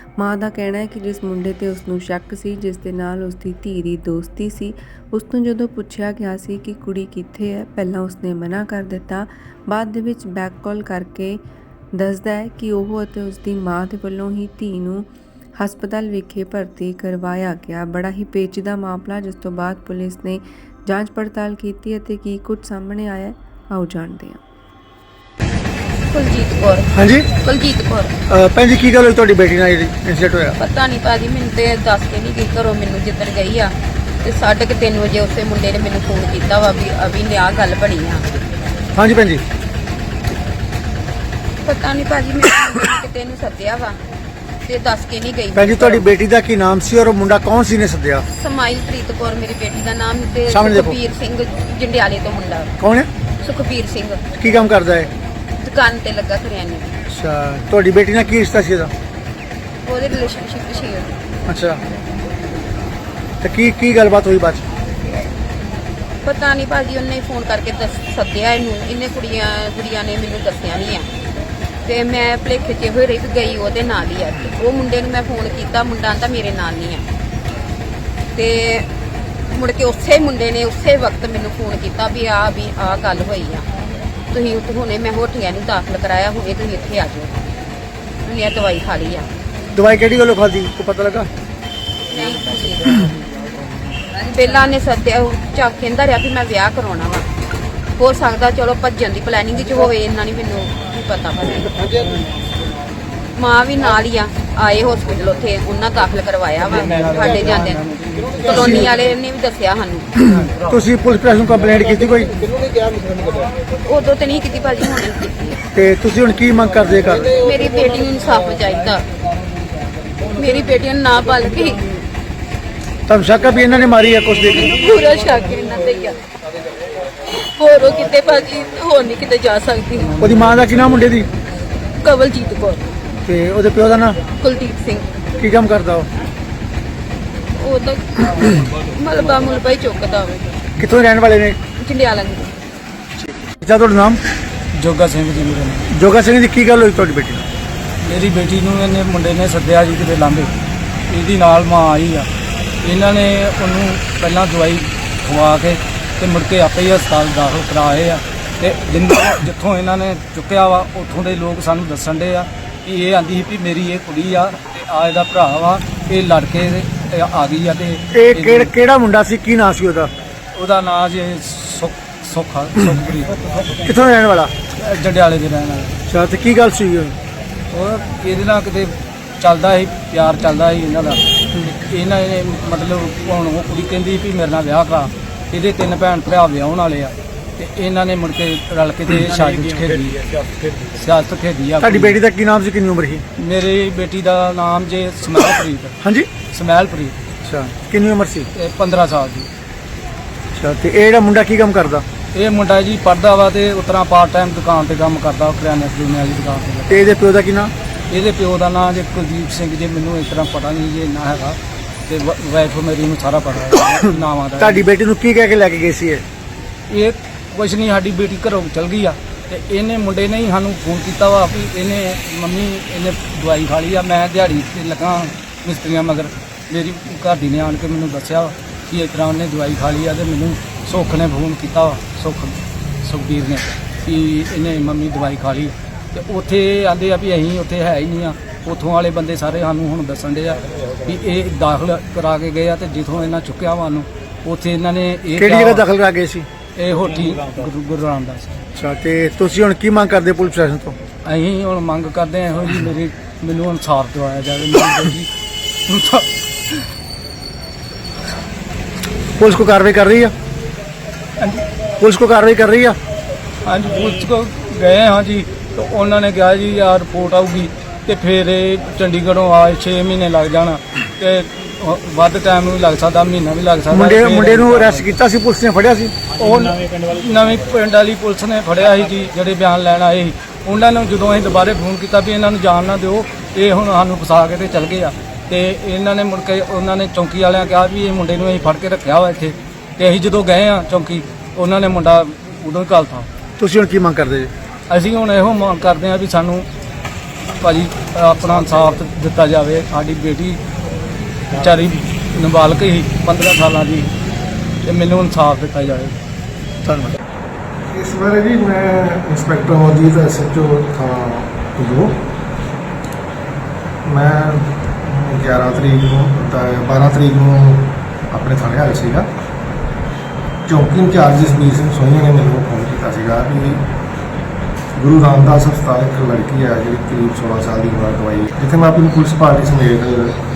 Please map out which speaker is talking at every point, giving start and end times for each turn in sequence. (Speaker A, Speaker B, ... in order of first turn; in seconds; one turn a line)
Speaker A: 0.2-11.4
Speaker A: 12.0-24.4
Speaker B: 26.1-28.1
Speaker C: 26.9-27.3
Speaker C: 28.3-30.6
Speaker B: 30.6-38.2
Speaker C: 39.0-39.4
Speaker B: 41.6-44.0
Speaker B: 44.6-46.0
Speaker C: 45.5-48.2
Speaker B: 48.3-52.7
Speaker C: 50.5-51.0
Speaker C: 52.8-53.1
Speaker B: 53.4-54.2
Speaker C: 54.4-55.1
Speaker B: 55.6-57.0
Speaker C: 57.1-58.9
Speaker B: 59.8-61.2
Speaker C: 61.5-61.8
Speaker C: 63.4-64.7
Speaker B: 66.2-71.1
Speaker B: 71.8-77.0
Speaker B: 78.3-78.9
Speaker B: 79.5-83.7
Speaker B: 84.3-87.4
Speaker B: 88.2-89.3
Speaker C: 89.7-91.3
Speaker B: 92.1-93.1
Speaker B: 94.1-97.3
Speaker B: 98.0-101.9
Speaker B: 103.3-110.3
Speaker D: 107.7-108.4
Speaker C: 108.5-108.9
Speaker C: 110.3-112.4
Speaker B: 113.8-115.6
Speaker C: 115.8-117.3
Speaker B: 117.3-119.0
Speaker B: 120.2-122.1
Speaker C: 123.1-124.7
Speaker B: 124.5-126.2
Speaker B: 127.3-130.2
Speaker D: 130.2-131.0
Speaker C: 130.2-131.3
Speaker B: 132.0-132.8
Speaker C: 133.2-134.2
Speaker B: 134.4-135.1
Speaker C: 135.4-136.1
Speaker B: 137.6-140.4
Speaker C: 140.8-141.6
Speaker B: 141.8-142.6
Speaker C: 143.2-144.2
Speaker D: 144.8-145.9
Speaker C: 145.9-147.4
Speaker D: 148.0-150.5
Speaker D: 151.1-152.3
Speaker D: 152.8-168.7
Speaker C: 168.1-170.1
Speaker D: 170.6-173.7
Speaker C: 173.8-174.5
Speaker D: 174.7-176.0
Speaker C: 176.1-177.2
Speaker D: 177.7-190.2
Speaker D: 190.9-192.2
Speaker C: 191.8-193.2
Speaker D: 193.4-195.9
Speaker C: 196.0-196.3
Speaker D: 196.5-197.2
Speaker C: 197.4-198.5
Speaker D: 198.6-199.5
Speaker C: 200.5-202.1
Speaker D: 202.3-207.1
Speaker C: 206.9-207.7
Speaker D: 208.1-214.9
Speaker C: 214.6-216.2
Speaker D: 216.9-245.8
Speaker C: 245.4-246.5
Speaker D: 246.8-248.6
Speaker C: 248.8-250.9
Speaker D: 251.2-255.3
Speaker D: 255.9-256.8
Speaker C: 259.4-260.3
Speaker C: 262.0-263.0
Speaker D: 263.6-275.1
Speaker C: 273.9-276.2
Speaker D: 276.4-293.3
Speaker C: 293.6-294.5
Speaker D: 294.9-296.7
Speaker D: 297.6-300.6
Speaker D: 301.5-304.1
Speaker D: 304.8-306.2
Speaker C: 306.8-307.2
Speaker E: 307.9-312.2
Speaker E: 314.1-319.3
Speaker E: 320.7-323.8
Speaker E: 325.0-330.4